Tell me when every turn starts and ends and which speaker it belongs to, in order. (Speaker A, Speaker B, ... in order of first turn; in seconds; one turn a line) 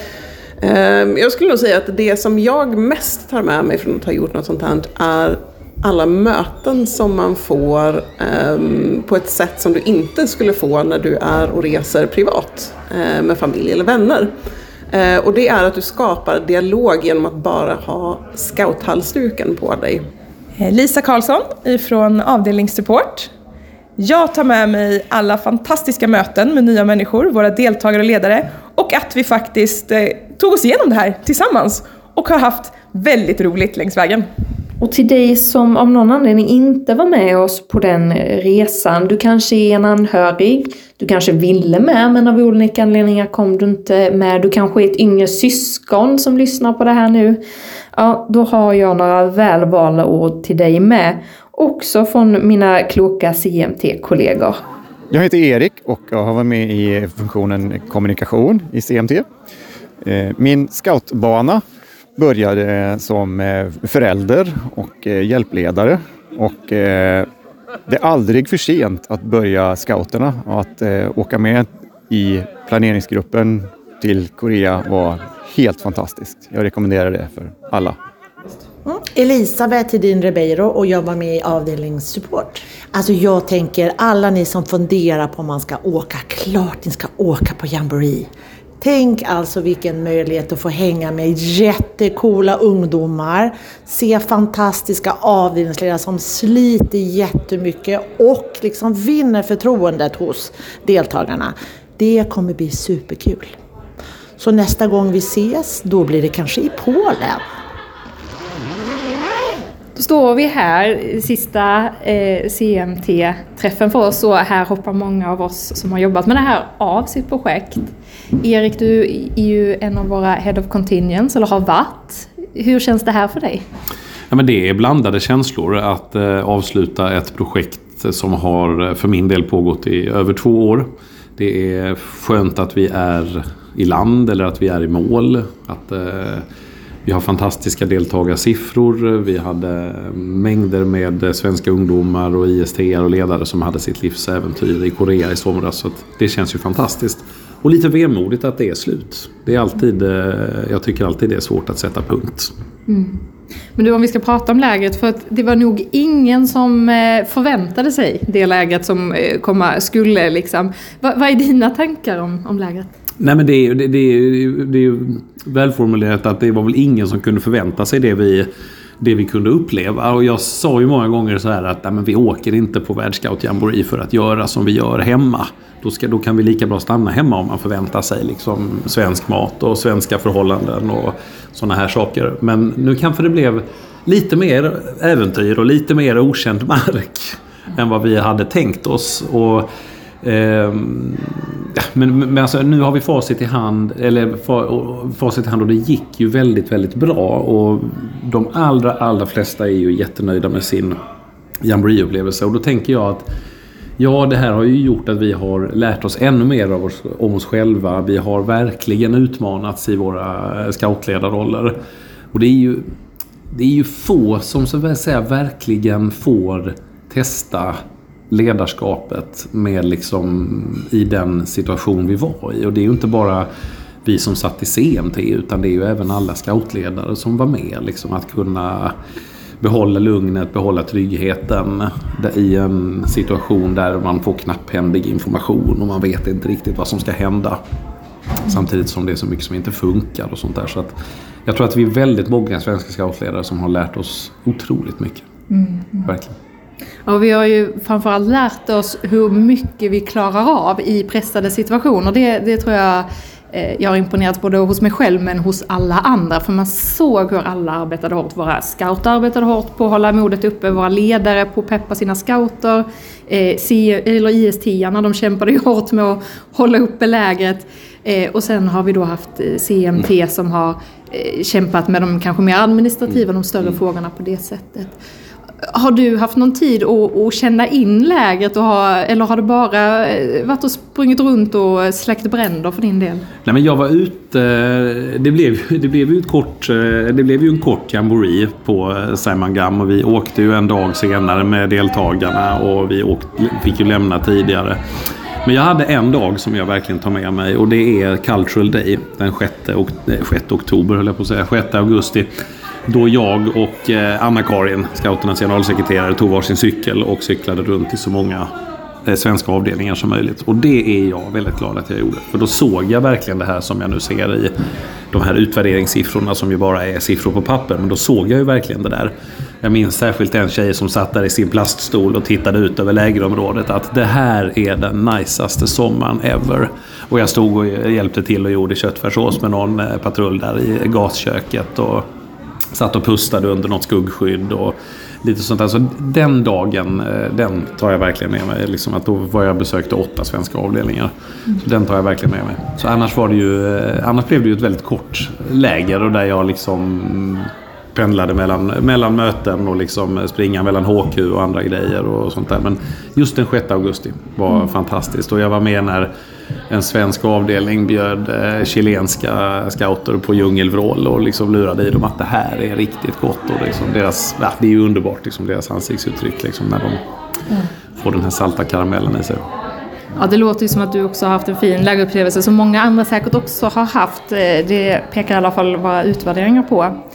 Speaker A: 0.6-14.3
Speaker A: 14.9-20.1
Speaker B: 20.6-23.3
Speaker B: 24.0-34.3
Speaker C: 34.8-47.4
Speaker C: 47.9-54.6
Speaker D: 55.1-59.2
Speaker D: 60.0-61.6
Speaker D: 62.2-67.3
Speaker D: 67.9-78.0
Speaker E: 78.8-88.3
Speaker E: 88.8-103.5
Speaker E: 104.4-107.4
Speaker C: 110.0-117.9
Speaker C: 118.4-123.6
Speaker F: 124.3-136.4
Speaker F: 137.0-152.5
Speaker C: 153.8-162.9
Speaker F: 163.2-168.5
Speaker F: 169.0-189.7
Speaker F: 190.2-201.0
Speaker F: 201.6-203.2
Speaker F: 204.0-211.7
Speaker F: 212.3-212.8
Speaker F: 213.5-217.8
Speaker F: 218.3-223.5
Speaker F: 224.0-228.9
Speaker F: 229.6-237.6
Speaker F: 238.5-240.9
Speaker F: 241.4-245.3
Speaker C: 245.5-246.1
Speaker F: 246.1-246.3
Speaker C: 247.1-274.9
Speaker C: 275.7-283.3
Speaker F: 283.4-294.8
Speaker F: 295.4-302.3
Speaker F: 302.9-308.5
Speaker F: 309.1-314.5
Speaker F: 315.1-332.0
Speaker F: 332.7-356.1
Speaker F: 356.7-367.0
Speaker F: 368.0-369.4
Speaker C: 370.2-376.9